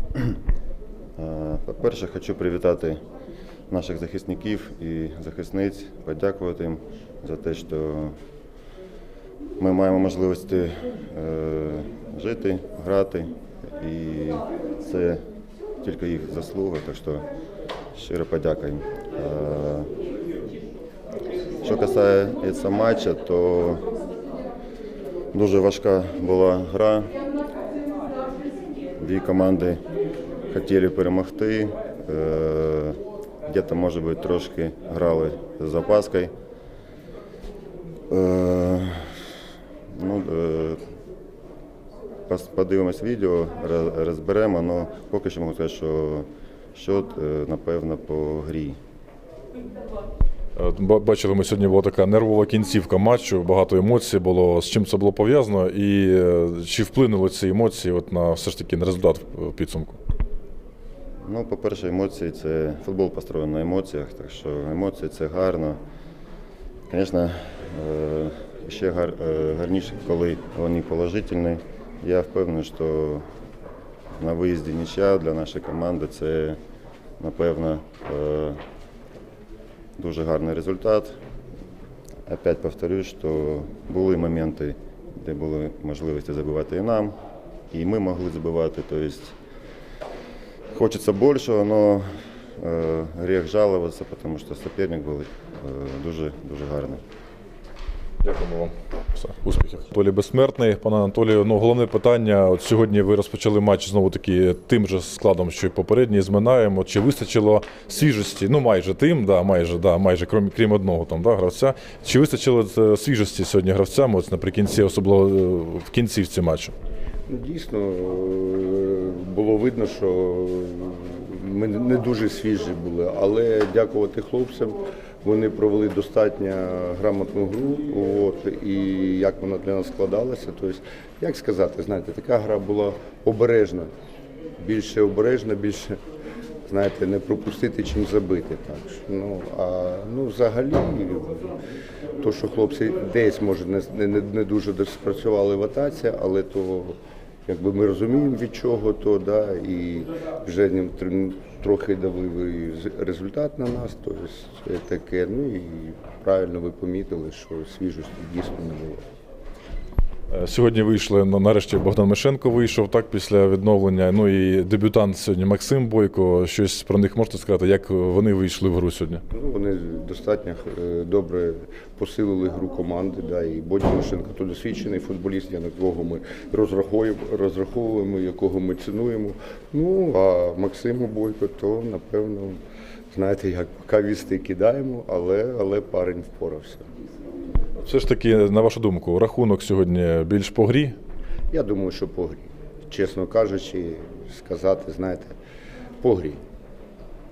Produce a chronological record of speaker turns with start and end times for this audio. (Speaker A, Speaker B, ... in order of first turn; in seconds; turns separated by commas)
Speaker A: 1.2-3.0, Speaker A: 3.7-8.2, Speaker A: 9.6-15.2, Speaker A: 15.8-17.2, Speaker A: 17.9-19.9, Speaker A: 21.6-23.9, Speaker A: 25.3-27.1, Speaker A: 29.0-29.8, Speaker A: 30.5-36.3, Speaker A: 38.1-39.3, Speaker A: 39.9-40.8, Speaker A: 42.3-48.8, Speaker B: 50.5-60.0, Speaker A: 61.2-65.8, Speaker A: 66.9-73.2, Speaker A: 74.2-76.6, Speaker A: 77.2-78.6, Speaker A: 80.0-81.2, Speaker A: 82.2-87.1, Speaker A: 87.7-89.3, Speaker A: 90.7-92.0, Speaker A: 92.6-97.0, Speaker B: 98.2-116.7, Speaker C: 117.3-133.9, Speaker C: 134.6-136.0, Speaker C: 136.7-141.5, Speaker C: 142.2-159.0, Speaker B: 160.3-169.2, Speaker C: 169.3-182.6, Speaker C: 183.1-186.8, Speaker B: 187.8-190.9, Speaker C: 191.5-195.3, Speaker C: 196.0-196.4